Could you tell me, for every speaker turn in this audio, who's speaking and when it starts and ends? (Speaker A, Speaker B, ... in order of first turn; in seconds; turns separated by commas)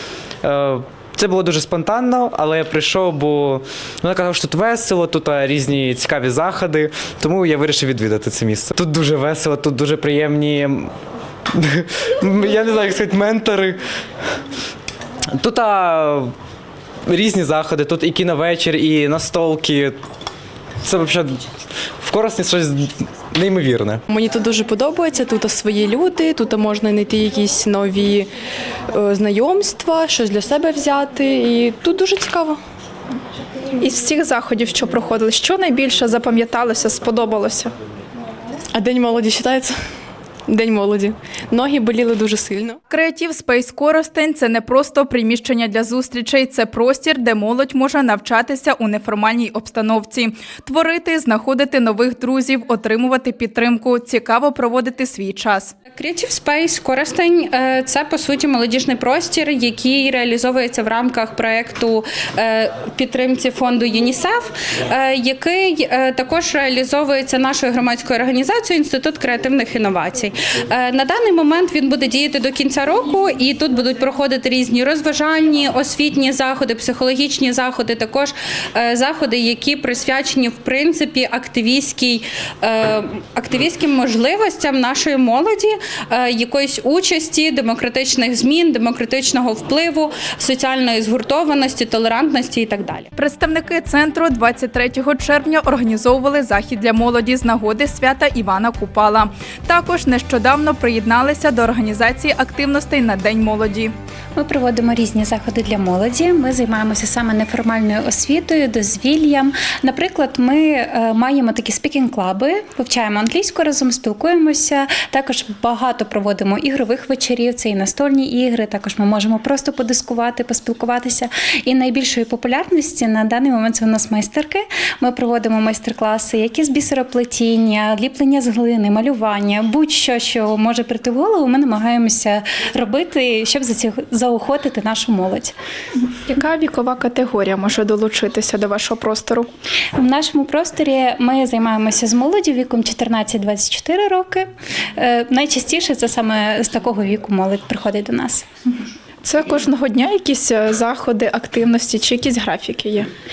Speaker A: 0.4-10.9, Speaker A: 11.5-13.8, Speaker A: 15.3-16.3, Speaker A: 17.1-20.0, Speaker A: 20.8-21.4, Speaker A: 22.0-24.0, Speaker B: 24.1-28.3, Speaker B: 28.9-32.6, Speaker C: 33.8-37.7, Speaker B: 38.8-39.8, Speaker B: 40.5-42.8, Speaker C: 42.9-55.7, Speaker D: 56.0-93.1, Speaker C: 93.2-103.9, Speaker E: 104.4-135.5, Speaker C: 136.1-139.5, Speaker E: 140.0-148.4, Speaker C: 149.2-153.1